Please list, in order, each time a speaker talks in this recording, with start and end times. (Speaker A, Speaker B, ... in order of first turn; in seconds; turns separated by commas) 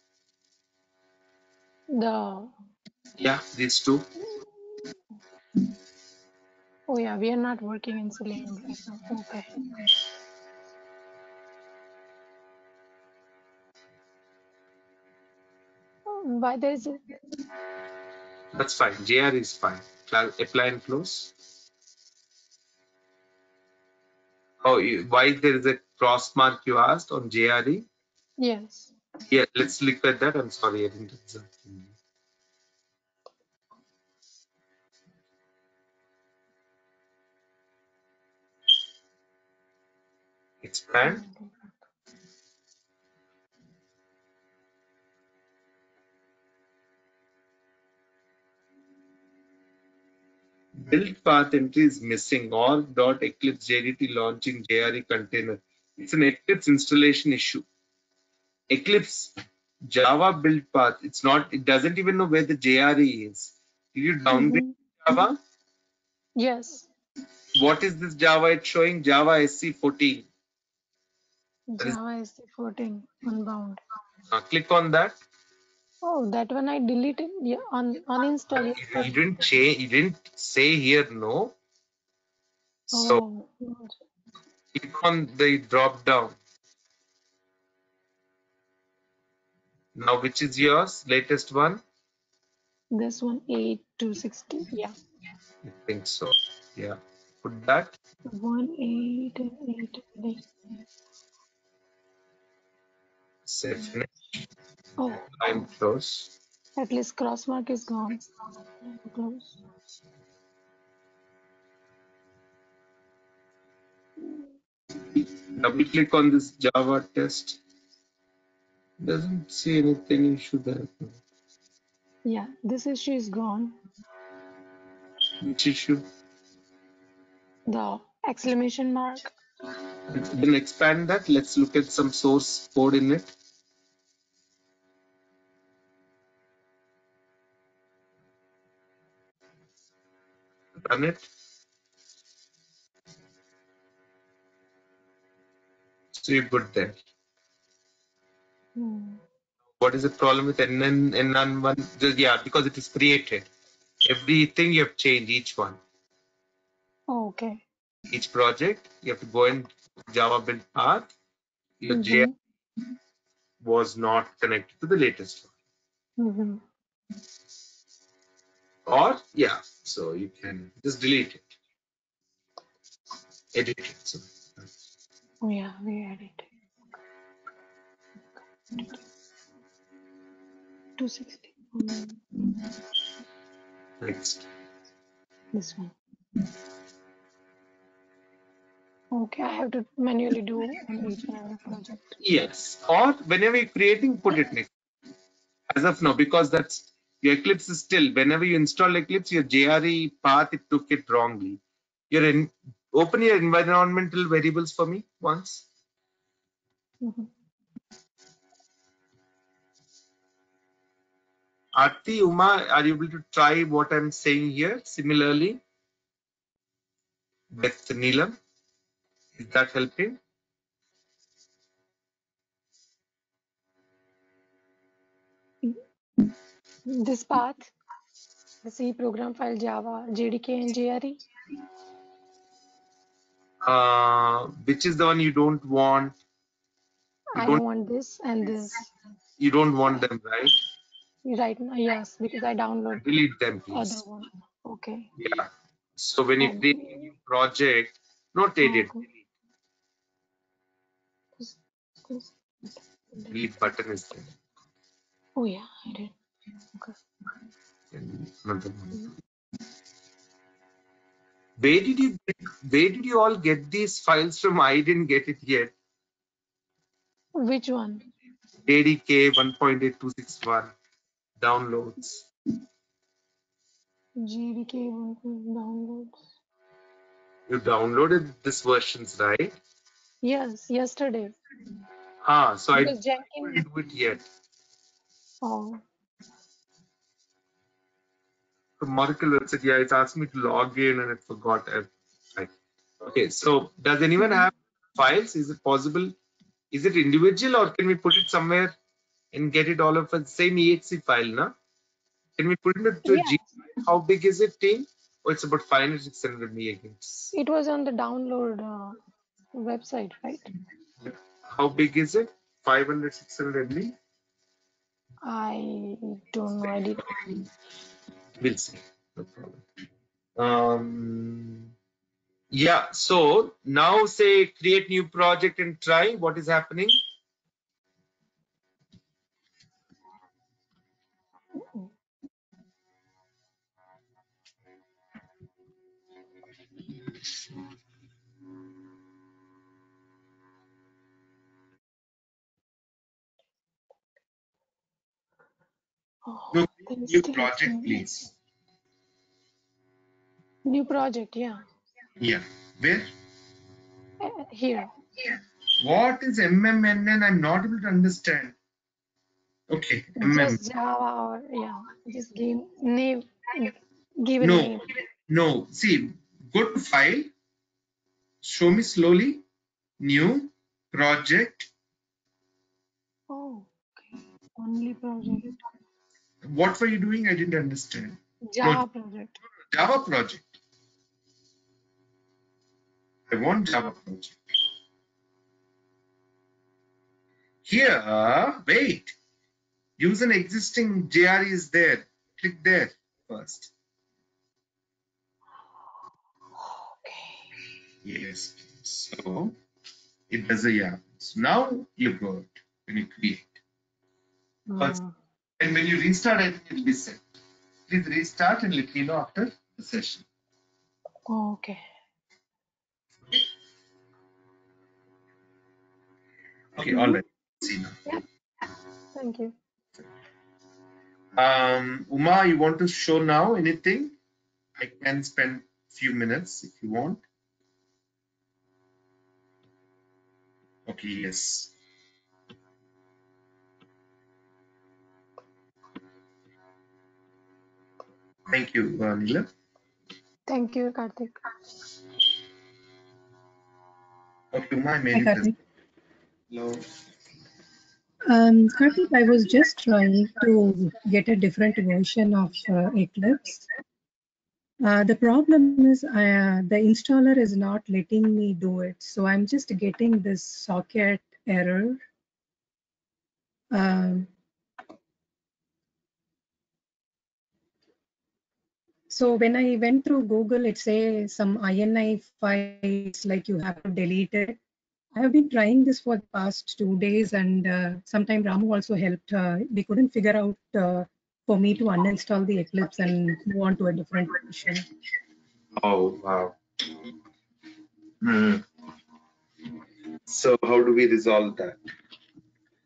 Speaker A: 1.9-2.5, Speaker B: 3.2-4.2, Speaker A: 6.9-9.7, Speaker A: 16.1-17.0, Speaker B: 18.5-21.3, Speaker B: 24.6-27.9, Speaker A: 28.4-28.9, Speaker B: 29.3-31.9, Speaker B: 40.6-41.2, Speaker A: 41.2-41.5, Speaker B: 50.7-57.6, Speaker B: 58.7-59.3, Speaker B: 59.8-65.4, Speaker A: 64.3-64.7, Speaker A: 66.4-66.9, Speaker B: 67.5-70.3, Speaker A: 71.7-73.8, Speaker B: 74.3-75.2, Speaker A: 76.0-79.1, Speaker B: 78.5-81.5, Speaker B: 82.9-83.2, Speaker A: 82.9-83.9, Speaker B: 84.7-86.4, Speaker B: 89.9-91.8, Speaker A: 92.9-94.9, Speaker B: 95.6-98.0, Speaker A: 98.3-100.4, Speaker B: 103.5-104.4, Speaker A: 105.0-105.3, Speaker B: 105.3-106.3, Speaker A: 106.8-109.6, Speaker B: 115.2-117.6, Speaker B: 119.0-121.2, Speaker A: 122.2-123.8, Speaker B: 125.4-126.0, Speaker A: 127.7-129.3, Speaker B: 130.1-133.3, Speaker B: 140.8-141.3, Speaker B: 146.1-147.0, Speaker A: 148.8-149.2, Speaker B: 149.8-153.5, Speaker B: 154.0-155.8, Speaker A: 157.1-157.6, Speaker B: 158.1-161.1, Speaker B: 161.8-162.3, Speaker A: 161.9-162.3, Speaker B: 163.6-165.5, Speaker A: 166.2-166.6, Speaker B: 168.9-171.5, Speaker B: 173.5-174.7, Speaker A: 175.4-176.5, Speaker A: 181.0-182.2, Speaker B: 184.0-184.4, Speaker A: 185.5-185.9, Speaker A: 189.1-192.2, Speaker B: 192.2-194.7, Speaker B: 195.7-205.6, Speaker A: 207.0-207.3, Speaker B: 211.7-215.6, Speaker B: 217.5-218.4, Speaker B: 219.3-220.2, Speaker A: 226.8-227.7, Speaker A: 228.6-231.2, Speaker B: 233.6-236.2, Speaker B: 237.4-237.6, Speaker A: 237.4-238.9, Speaker B: 239.4-240.6, Speaker A: 241.2-243.1, Speaker B: 242.9-244.0, Speaker A: 243.7-245.1, Speaker B: 245.2-249.2, Speaker A: 246.4-246.9, Speaker A: 248.6-249.0, Speaker A: 251.4-252.3, Speaker B: 253.3-254.4, Speaker A: 255.4-256.1, Speaker A: 256.6-256.9, Speaker B: 257.9-259.2, Speaker B: 261.6-265.7, Speaker A: 267.3-268.1, Speaker B: 268.6-270.7, Speaker B: 271.4-272.2, Speaker A: 274.2-276.2, Speaker B: 277.5-279.6, Speaker A: 280.2-281.4, Speaker B: 282.2-284.2, Speaker A: 282.7-283.6, Speaker A: 285.4-285.8, Speaker B: 288.8-296.1, Speaker B: 296.7-298.7, Speaker B: 299.3-301.5, Speaker B: 302.4-307.3, Speaker A: 303.1-303.4, Speaker A: 307.3-309.0, Speaker A: 309.5-310.5, Speaker B: 311.0-313.9, Speaker A: 315.2-317.3, Speaker B: 318.4-319.6, Speaker B: 320.4-321.7, Speaker B: 322.5-327.0, Speaker A: 331.6-331.9, Speaker A: 346.2-348.0, Speaker B: 346.5-348.3, Speaker A: 350.6-351.6, Speaker B: 352.2-353.1, Speaker A: 354.2-354.9, Speaker B: 355.8-358.6, Speaker B: 359.7-360.6, Speaker A: 360.2-364.8, Speaker B: 364.4-367.3, Speaker B: 368.4-369.4, Speaker B: 370.0-371.7, Speaker A: 373.3-375.6, Speaker B: 376.4-378.8, Speaker A: 378.5-379.4, Speaker B: 379.7-380.5, Speaker B: 383.3-384.3, Speaker B: 387.6-389.1, Speaker B: 390.0-393.7, Speaker A: 396.7-397.4, Speaker B: 398.0-399.6, Speaker B: 400.3-403.6, Speaker A: 404.7-405.1, Speaker B: 405.6-407.3, Speaker B: 407.9-410.2, Speaker A: 411.3-411.8, Speaker B: 416.8-418.0, Speaker A: 419.1-419.5, Speaker B: 421.4-424.1, Speaker B: 424.8-427.2, Speaker B: 430.9-431.7, Speaker B: 438.5-439.5, Speaker A: 440.5-441.4, Speaker B: 444.5-445.5, Speaker C: 445.1-445.5, Speaker B: 446.5-446.8, Speaker C: 448.2-453.6, Speaker C: 454.8-462.0, Speaker C: 463.7-464.3, Speaker C: 469.1-474.6, Speaker C: 475.1-484.9, Speaker B: 485.8-486.6, Speaker B: 488.2-488.6, Speaker B: 490.3-491.8